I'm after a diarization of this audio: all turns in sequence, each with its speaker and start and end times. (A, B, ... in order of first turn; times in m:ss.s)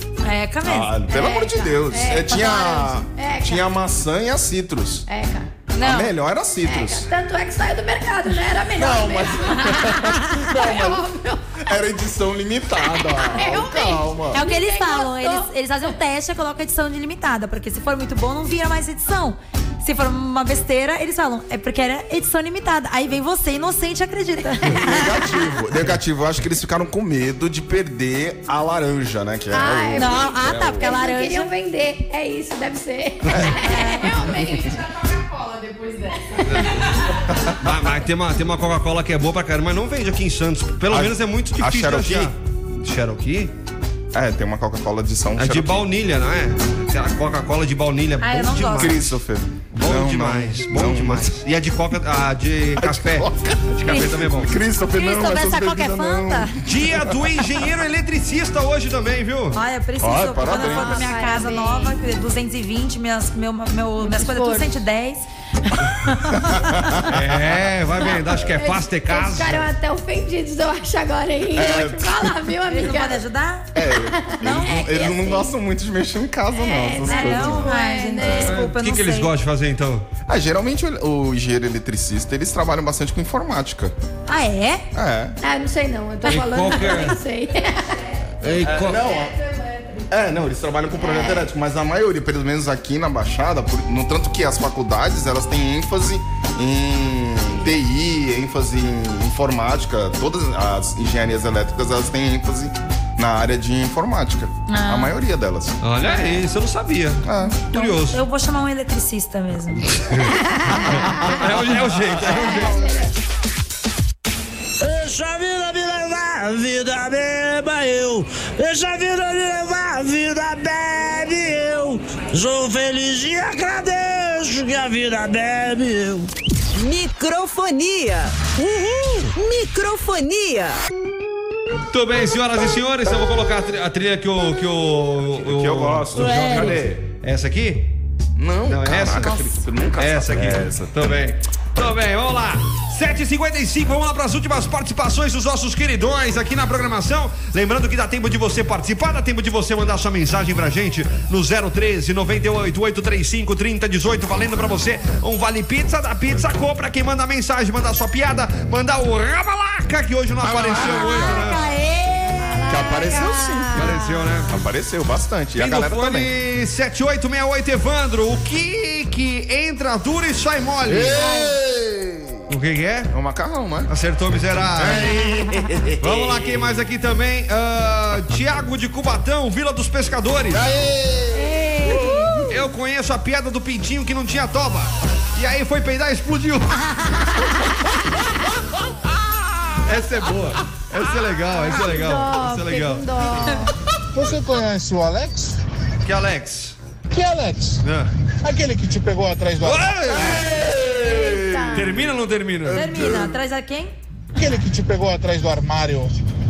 0:00.2-0:01.0 A
0:00.6-0:05.1 B
0:01.1-0:03.7 C
0:02.3-0:02.7 A
0:05.1-0:05.5 C
0:05.7-0:06.1 A
0:05.8-0:07.1 B
0:06.6-0:11.6 C
0:08.7-0:11.1 B
0:11.6-0:14.4 B
0:13.2-0:15.5 C
0:14.3-0:25.2 A
0:24.7-0:30.9 B
0:29.5-0:35.4 C
0:30.0-0:31.5 A
0:33.4-0:34.2 A
0:36.3-0:36.7 C
0:36.4-0:36.8 D
0:37.5-0:43.5 D
0:40.9-0:42.3 B
0:44.1-0:45.9 B
0:45.4-0:49.1 D
0:48.2-0:49.0 A
0:48.8-0:51.3 B
0:49.7-0:54.5 D
0:52.8-0:57.2 B
0:54.9-0:56.5 A
0:56.6-0:59.6 D
0:59.5-1:06.8 A
1:00.0-1:01.1 B
1:00.4-1:02.0 C
1:04.0-1:04.8 C
1:06.4-1:07.4 B
1:07.1-1:09.6 D
1:08.1-1:13.2 C
1:11.5-1:12.4 B
1:12.7-1:13.7 A
1:13.7-1:17.8 B
1:14.0-1:15.5 C
1:14.4-1:15.3 A
1:16.6-1:18.6 C
1:17.0-1:19.3 A
1:18.4-1:20.0 D
1:20.3-1:24.0 B
1:24.3-1:24.8 A
1:24.9-1:25.4 B
1:25.4-1:30.1 C
1:26.3-1:27.2 D
1:28.4-1:29.0 D
1:28.6-1:29.4 B
1:30.1-1:45.8 B
1:31.0-1:31.4 C
1:44.7-1:45.2 A
1:45.8-1:48.2 D
1:46.0-1:46.4 A
1:47.2-1:47.6 B
1:47.7-1:49.9 A
1:50.0-1:50.3 D
1:50.3-1:51.5 C
1:50.9-1:51.9 B
1:50.9-1:52.9 D
1:52.2-1:53.1 C
1:54.8-2:06.3 E
2:06.8-2:10.8 F
2:11.9-2:17.9 D
2:15.4-2:17.0 B
2:16.2-2:16.7 A
2:18.4-2:21.1 B
2:18.7-2:19.4 D
2:20.0-2:41.6 D
2:40.4-2:41.6 B
2:40.7-2:44.3 A
2:42.3-2:43.3 C
2:42.7-2:43.9 B
2:43.7-2:44.5 D
2:44.5-2:46.3 B
2:45.6-2:51.2 D
2:50.8-2:52.4 B
2:51.2-2:51.6 A
2:52.5-2:53.1 D
2:53.1-2:53.9 B
2:53.9-2:55.1 D
2:54.8-2:56.7 B
2:56.0-3:00.7 D
3:00.5-3:02.5 B
3:01.3-3:02.4 A
3:02.5-3:07.3 D
3:08.7-3:09.8 B
3:09.8-3:13.1 D
3:11.6-3:13.7 C
3:14.1-3:15.6 G
3:16.0-3:16.8 D
3:17.1-3:17.8 G
3:17.8-3:18.1 D
3:18.4-3:20.1 G
3:19.6-3:20.5 D
3:20.1-3:23.4 B
3:20.4-3:22.0 C
3:21.7-3:22.9 D
3:22.7-3:23.9 A
3:24.4-3:26.1 G